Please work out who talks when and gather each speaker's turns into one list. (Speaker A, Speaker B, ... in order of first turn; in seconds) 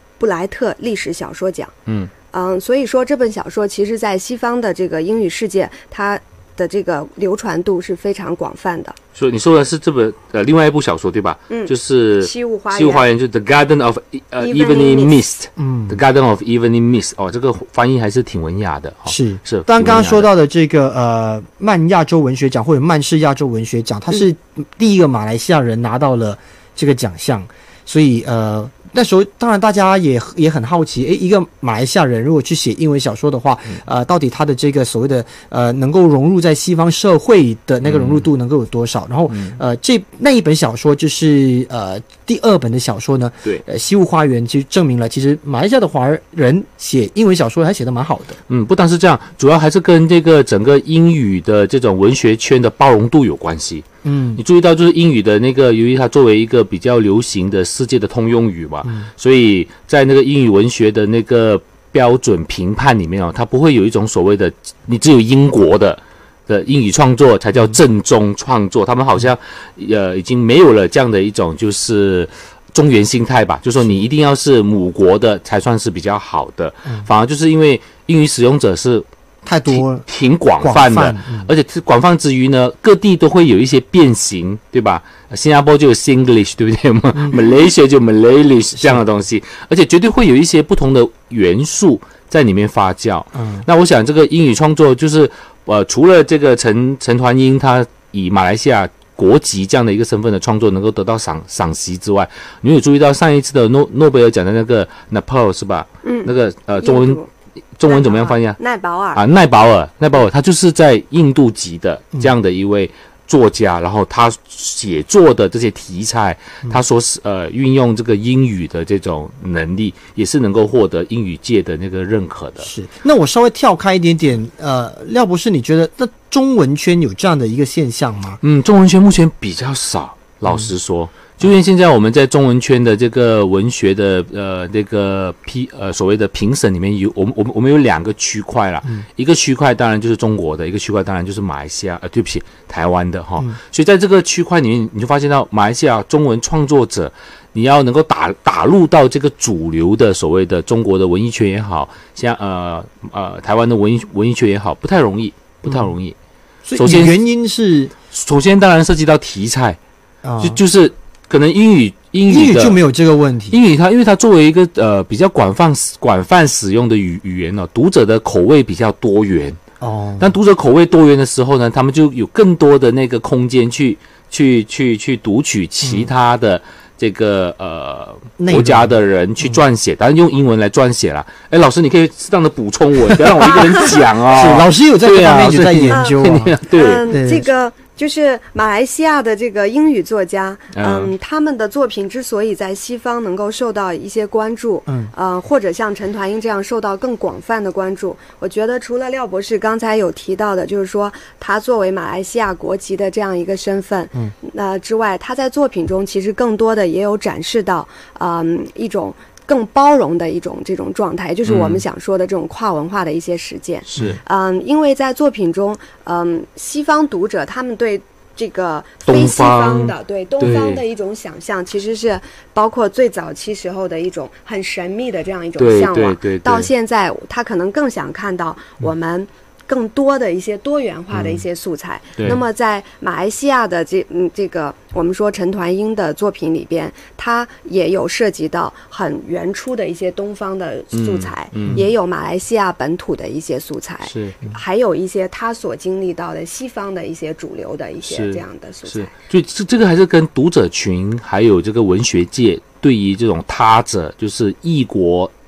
Speaker A: 0.2-1.7, 2.3-8.9, 11.5-13.1, 14.4-15.2, 106.0-107.3, 107.9-109.2, 185.9-249.1
Speaker B: 1.9-2.1, 9.1-20.3, 37.8-38.2, 39.3-39.6, 48.5-53.8, 54.4-79.0, 79.7-107.2, 107.8-108.6, 109.1-122.7, 128.4-156.1, 156.7-157.1, 158.1-159.8, 160.4-162.8, 163.5-169.6, 170.2-187.1, 190.7-191.1, 211.4-211.8, 213.9-214.2, 219.1-220.8, 225.6-226.7, 231.1-231.4, 240.9-241.8, 244.0-244.4, 248.1-255.3
Speaker C: 15.6-16.0, 19.1-48.4, 54.0-54.4, 79.4-80.1, 80.6-81.5, 93.3-93.7, 122.6-128.4, 155.6-155.9, 156.7-157.9, 160.2-160.6, 162.2-163.6, 169.8-170.4, 175.8-176.1, 178.4-179.6, 184.3-187.5, 194.9-195.1